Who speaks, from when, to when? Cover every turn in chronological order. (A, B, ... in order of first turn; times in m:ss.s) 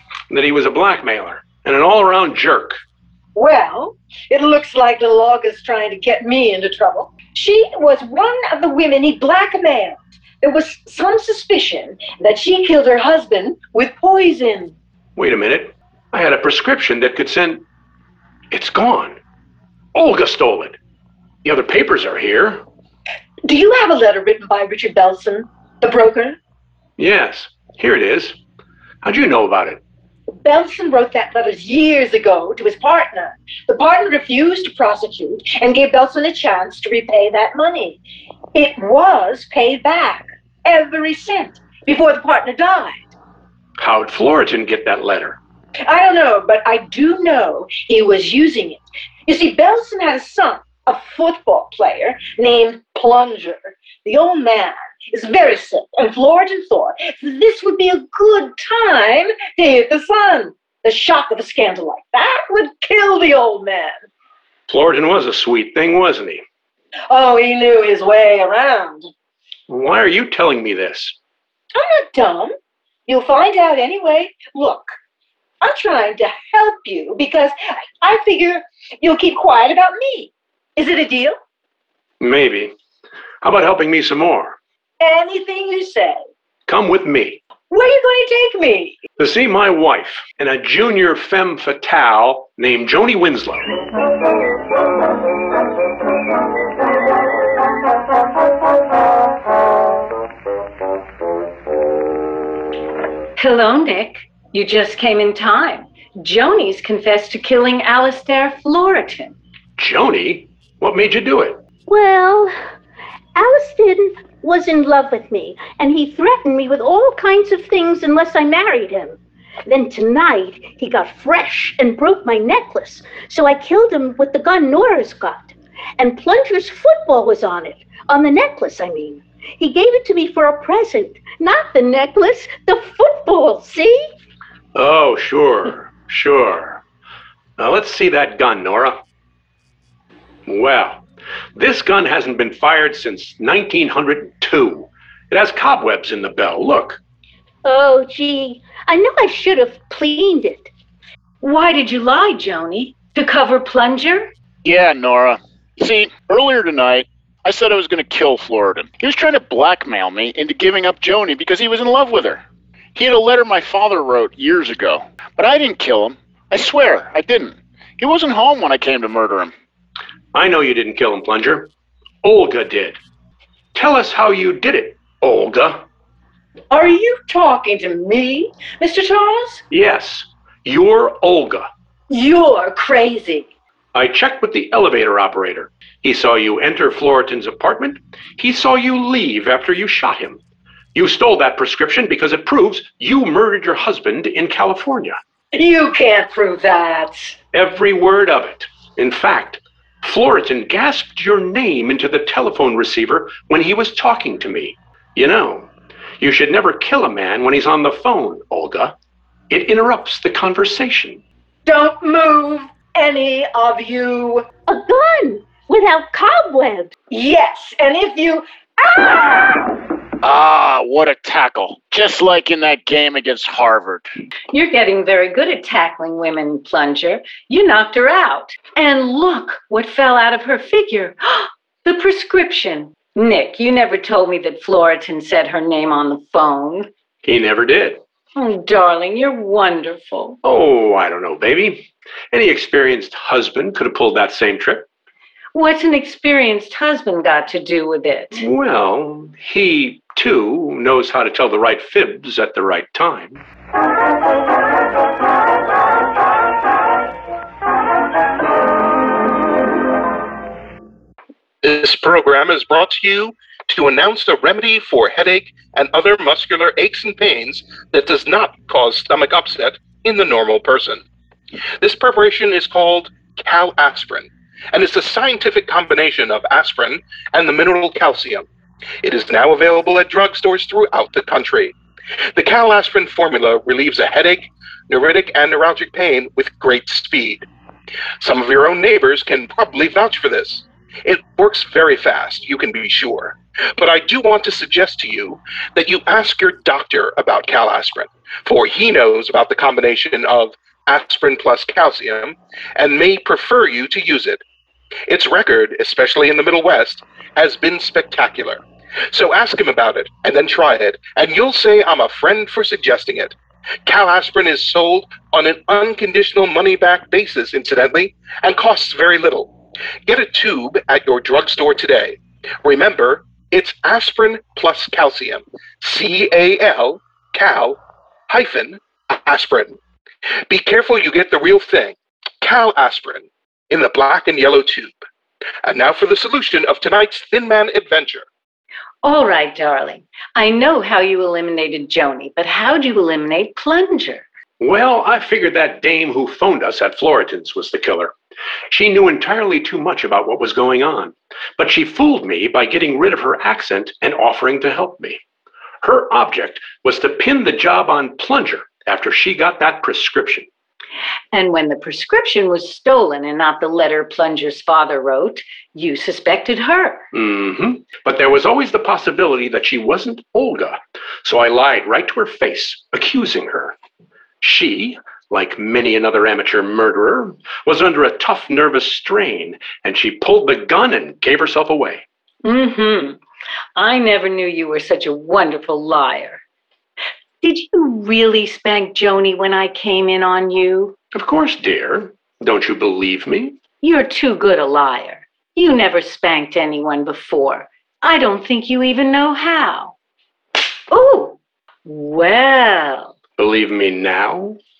0:00.3-0:02.8 A
0:03.4-0:14.8 B
0:15.2-0:17.6 A
0:18.5-0:19.2 A
0:20.0-0:20.8 A
0:21.4-0:22.6 A
0:23.4-0:26.4 B
0:27.0-0:28.4 A
0:29.0-0:29.8 A
0:30.4-0:38.0 B
0:38.5-0:43.1 B
0:43.8-0:45.4 A
0:45.8-1:04.0 B
1:04.7-1:06.4 A
1:07.1-1:09.1 B
1:09.7-1:11.2 A
1:11.8-1:12.5 B
1:13.1-1:14.9 B
1:15.6-1:21.4 B
1:22.2-1:22.7 A
1:23.4-1:24.6 A
1:25.0-1:26.2 B
1:26.7-1:27.4 A
1:27.7-1:29.0 B
1:29.2-1:33.7 A
1:43.4-1:49.4 C
1:49.8-1:51.6 A
1:51.9-1:52.5 D
1:53.4-2:14.0 D
2:14.8-2:16.8 A
2:17.6-2:19.0 A
2:20.5-2:21.0 A
2:21.6-2:27.0 A
2:27.6-2:30.7 D
2:31.4-2:34.3 C
2:34.6-2:42.4 E
2:43.0-2:49.5 E
2:50.3-2:51.7 A
2:52.2-2:53.0 A
2:53.7-2:55.8 A
2:56.7-2:59.6 B
2:59.7-3:01.7 A
3:02.1-3:03.5 B
3:03.9-3:10.4 A
3:10.9-3:15.2 A
3:15.5-3:17.4 B
3:17.5-3:29.0 A
3:29.5-3:31.2 A
3:31.7-3:34.5 B
3:34.7-3:36.9 D
3:37.1-3:39.8 B
3:40.2-3:44.1 E
3:44.5-3:56.9 C
3:57.2-3:58.0 A
3:58.4-4:00.4 C
4:00.4-4:04.9 A
4:05.5-4:08.4 C
4:08.4-4:13.4 A
4:21.6-4:31.0 F
4:31.8-4:38.5 F
4:39.0-4:41.8 F
4:42.4-4:47.5 F
4:48.2-5:04.4 F
5:05.1-5:19.5 F
5:20.0-5:29.8 F
5:30.5-5:34.9 F
5:35.6-5:38.3 F
5:39.0-5:44.2 C
5:44.6-5:48.1 A
5:48.7-5:55.2 A
5:55.8-6:00.5 A
6:01.3-6:07.0 C
6:07.1-6:13.8 A
6:14.4-6:22.0 A
6:22.4-6:23.2 C
6:23.8-6:26.4 C
6:27.4-6:31.0 C
6:31.1-6:33.6 A
6:33.8-6:39.9 C
6:40.9-6:43.1 C
6:43.4-6:44.6 A